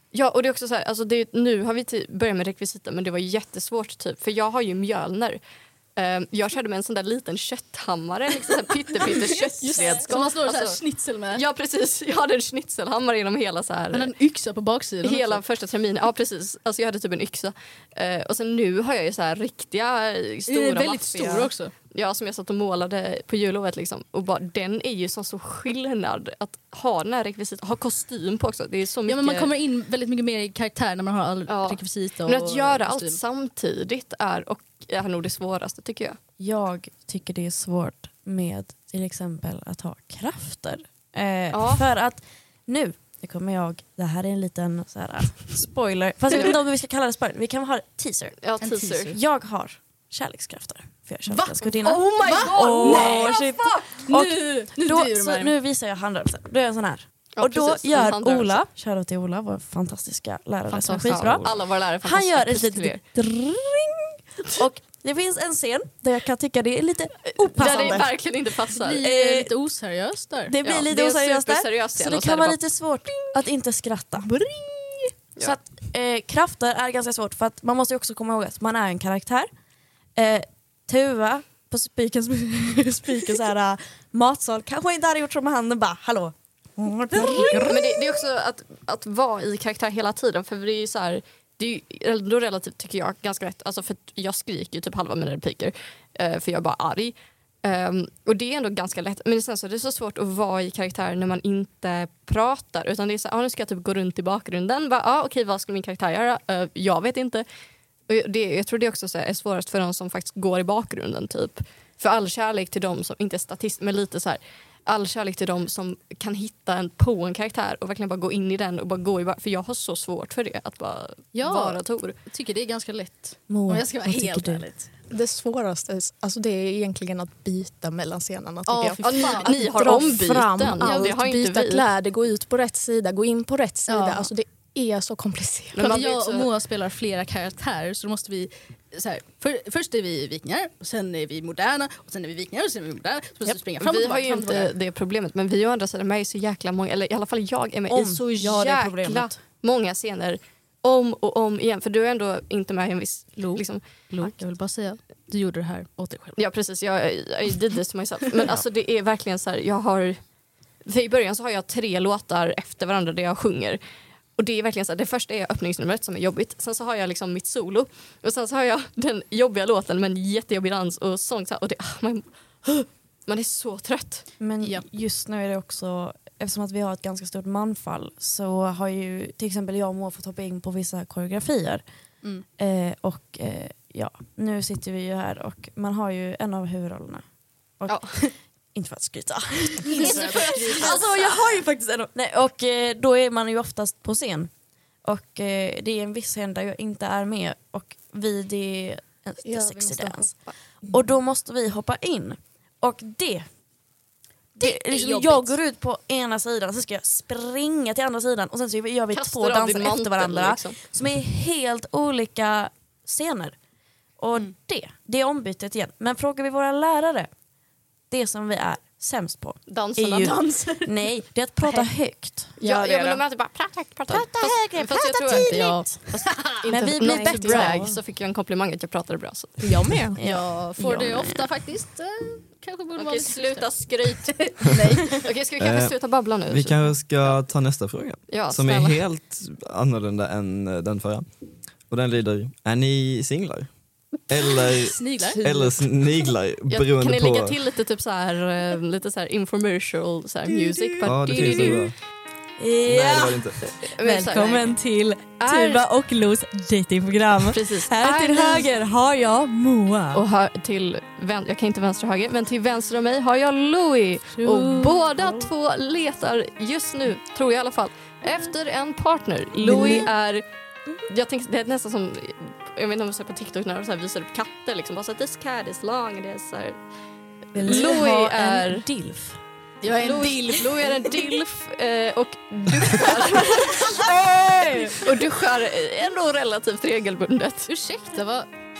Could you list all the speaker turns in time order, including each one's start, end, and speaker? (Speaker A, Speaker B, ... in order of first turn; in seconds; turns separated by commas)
Speaker A: 0.1-5.4, Speaker A: 6.0-10.8, Speaker B: 9.0-11.4, Speaker A: 11.3-14.1, Speaker B: 13.9-15.4, Speaker A: 15.0-29.5, Speaker B: 20.5-21.7, Speaker B: 29.1-33.2, Speaker A: 31.5-36.2, Speaker C: 36.4-48.4, Speaker A: 41.5-41.9, Speaker A: 48.4-49.1, Speaker B: 48.6-49.1, Speaker C: 49.1-68.1, Speaker B: 51.3-53.4, Speaker A: 51.8-54.0, Speaker B: 54.0-55.5, Speaker A: 57.4-58.6, Speaker B: 60.7-61.4, Speaker A: 61.0-63.0, Speaker A: 67.3-69.0, Speaker B: 67.8-68.0, Speaker B: 68.7-70.6, Speaker C: 69.0-69.5, Speaker C: 70.5-74.3, Speaker A: 70.6-72.6, Speaker B: 74.2-75.0, Speaker C: 75.4-79.5, Speaker C: 80.2-88.0, Speaker A: 87.6-107.5, Speaker A: 108.1-122.2, Speaker B: 121.3-124.9, Speaker C: 123.5-124.7, Speaker D: 125.1-136.0, Speaker B: 128.7-129.5, Speaker A: 129.0-131.9, Speaker B: 130.8-131.1, Speaker B: 133.9-134.3, Speaker A: 135.7-136.5, Speaker B: 135.8-144.7, Speaker A: 143.8-153.8, Speaker C: 147.9-149.4, Speaker B: 153.4-156.4, Speaker A: 156.3-160.2, Speaker A: 160.8-163.8, Speaker A: 164.4-174.2, Speaker C: 174.4-181.8, Speaker C: 182.6-187.2, Speaker C: 187.8-194.5, Speaker A: 187.9-188.2, Speaker B: 189.8-191.0, Speaker A: 190.0-191.6, Speaker C: 195.0-200.3, Speaker D: 199.4-200.3, Speaker C: 200.9-203.4, Speaker C: 204.6-213.6, Speaker A: 209.1-210.8, Speaker C: 214.2-217.3, Speaker C: 218.1-222.6, Speaker A: 219.7-220.4, Speaker B: 220.2-221.0, Speaker A: 222.6-225.7, Speaker D: 222.6-223.2, Speaker C: 224.1-226.0, Speaker B: 225.2-227.6, Speaker A: 226.5-229.8, Speaker C: 226.7-228.0, Speaker D: 229.6-230.2, Speaker C: 230.1-231.5, Speaker B: 230.2-235.2, Speaker A: 232.9-237.3, Speaker E: 235.6-235.9, Speaker E: 236.4-241.2, Speaker A: 238.3-239.0, Speaker E: 241.9-243.7, Speaker E: 244.3-247.6, Speaker B: 244.7-245.4, Speaker A: 246.7-251.9, Speaker C: 250.7-251.8, Speaker E: 251.0-251.9, Speaker C: 252.6-260.2, Speaker E: 252.8-253.6, Speaker A: 253.6-254.8, Speaker A: 255.4-255.8, Speaker A: 257.5-258.7, Speaker A: 260.1-270.4, Speaker B: 264.4-265.0, Speaker C: 269.6-270.1, Speaker A: 271.1-276.8, Speaker A: 277.5-278.9, Speaker C: 277.5-279.4, Speaker B: 279.8-281.1, Speaker A: 279.8-284.1, Speaker C: 282.8-285.0, Speaker A: 284.9-287.7, Speaker B: 287.7-288.5